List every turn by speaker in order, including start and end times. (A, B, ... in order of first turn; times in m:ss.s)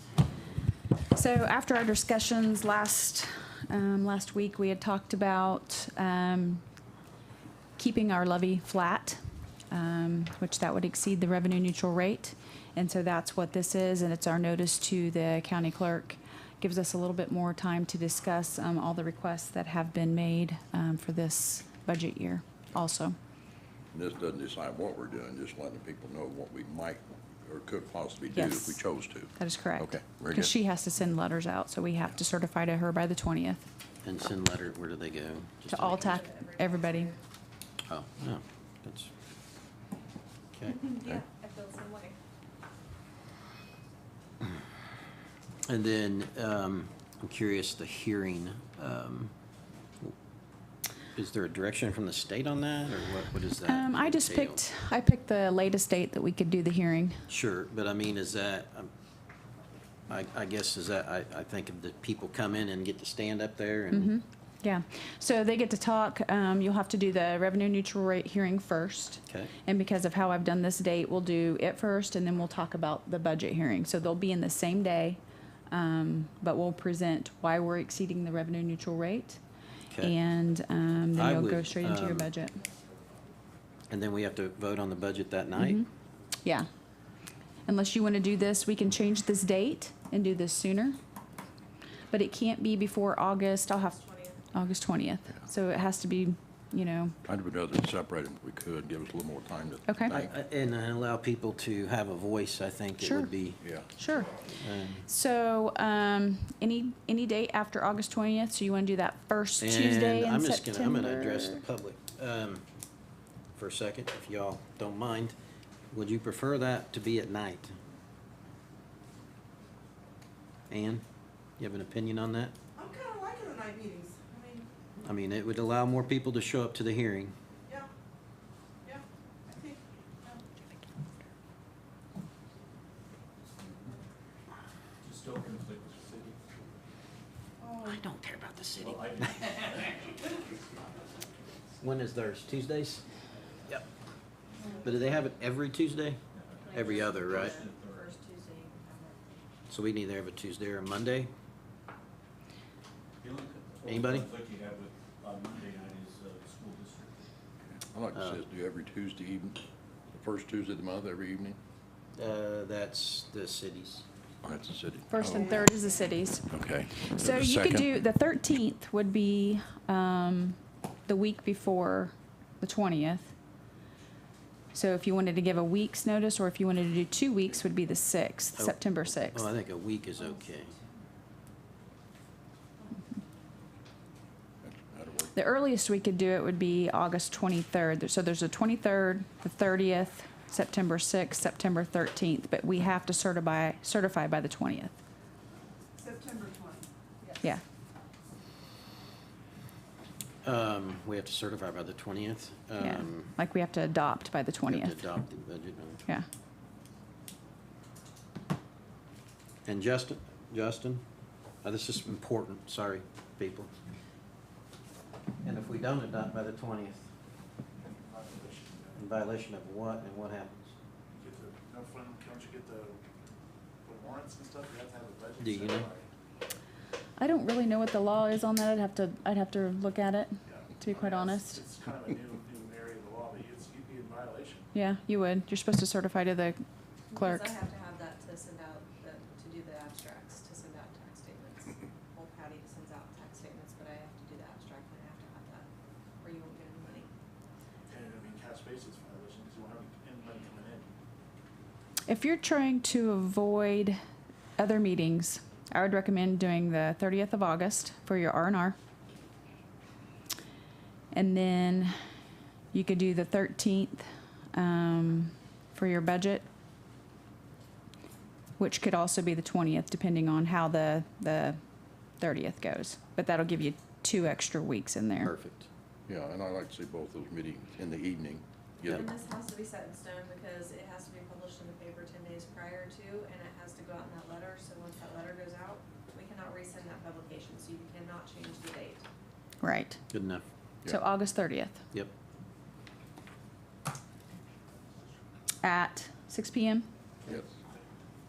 0:01.1-0:06.6 A
0:07.8-0:23.2 A
0:23.9-0:30.5 B
0:28.3-0:28.8 A
0:29.4-0:33.6 A
0:34.0-0:36.2 C
0:35.7-0:37.1 A
0:35.8-0:37.2 D
0:37.8-0:39.1 C
0:40.5-0:41.2 C
0:40.7-0:42.2 D
0:45.6-0:49.3 C
0:51.1-0:54.6 C
0:53.6-0:57.2 A
0:57.3-0:58.9 C
1:00.1-1:04.1 C
1:03.9-1:19.4 A
1:20.0-1:22.6 A
1:21.1-1:22.3 C
1:22.5-1:23.4 E
1:23.9-1:25.8 C
1:25.6-1:25.9 A
1:27.6-1:31.0 A
1:32.1-1:34.0 A
1:33.7-1:34.4 D
1:34.5-1:37.1 A
1:37.2-1:40.3 B
1:39.9-1:40.1 A
1:40.1-1:43.6 C
1:43.0-1:43.3 A
1:43.6-1:43.9 B
1:43.8-1:44.3 A
1:44.6-1:45.0 C
1:45.0-1:51.6 A
1:49.6-1:52.6 C
1:53.6-1:55.3 C
1:55.9-1:57.7 C
2:00.7-2:01.0 C
2:01.6-2:02.6 C
2:02.8-2:04.7 F
2:05.0-2:07.3 C
2:08.8-2:10.4 F
2:15.0-2:16.4 G
2:17.6-2:18.0 F
2:17.8-2:19.6 C
2:18.8-2:20.0 G
2:21.8-2:23.0 C
2:24.6-2:24.9 F
2:24.8-2:26.2 C
2:26.3-2:28.2 G
2:26.6-2:29.4 D
2:26.7-2:27.6 C
2:29.7-2:31.3 C
2:33.2-2:37.3 G
2:33.8-2:34.3 C
2:37.6-2:41.6 B
2:38.1-2:38.4 C
2:42.2-2:44.0 C
2:44.4-2:45.6 B
2:45.1-2:46.4 A
2:45.4-2:46.2 F
2:46.5-2:47.9 B
2:47.0-2:53.3 A
2:54.7-2:59.5 A
2:58.6-3:00.7 C
3:04.6-3:05.3 B
3:05.3-3:14.9 A
3:16.0-3:17.4 F
3:20.4-3:23.3 C
3:22.8-3:25.0 A
3:24.7-3:26.0 C
3:29.6-3:31.0 C
3:31.6-3:33.7 C
3:35.4-3:37.1 C
3:37.8-3:39.1 E
3:39.0-3:40.7 C
3:41.1-3:43.0 E
3:43.8-3:46.1 E
3:45.4-3:45.9 C
3:47.2-3:51.6 A
3:50.5-3:54.7 E
3:54.7-3:56.6 A
3:57.1-4:05.7 D
3:57.1-3:57.5 A
4:06.2-4:07.1 D
4:07.9-4:10.9 E
4:12.1-4:14.0 A
4:14.6-4:18.8 A
4:21.1-4:21.9 A
4:22.7-4:26.4 A
4:28.6-4:31.6 A
4:32.2-4:35.3 A
4:35.2-4:35.7 C
4:36.1-4:39.1 B
4:38.8-4:49.0 D
4:49.6-4:50.0 A
4:50.1-4:50.4 C
4:50.9-4:51.8 A
4:55.6-4:56.9 A
4:57.3-4:57.5 B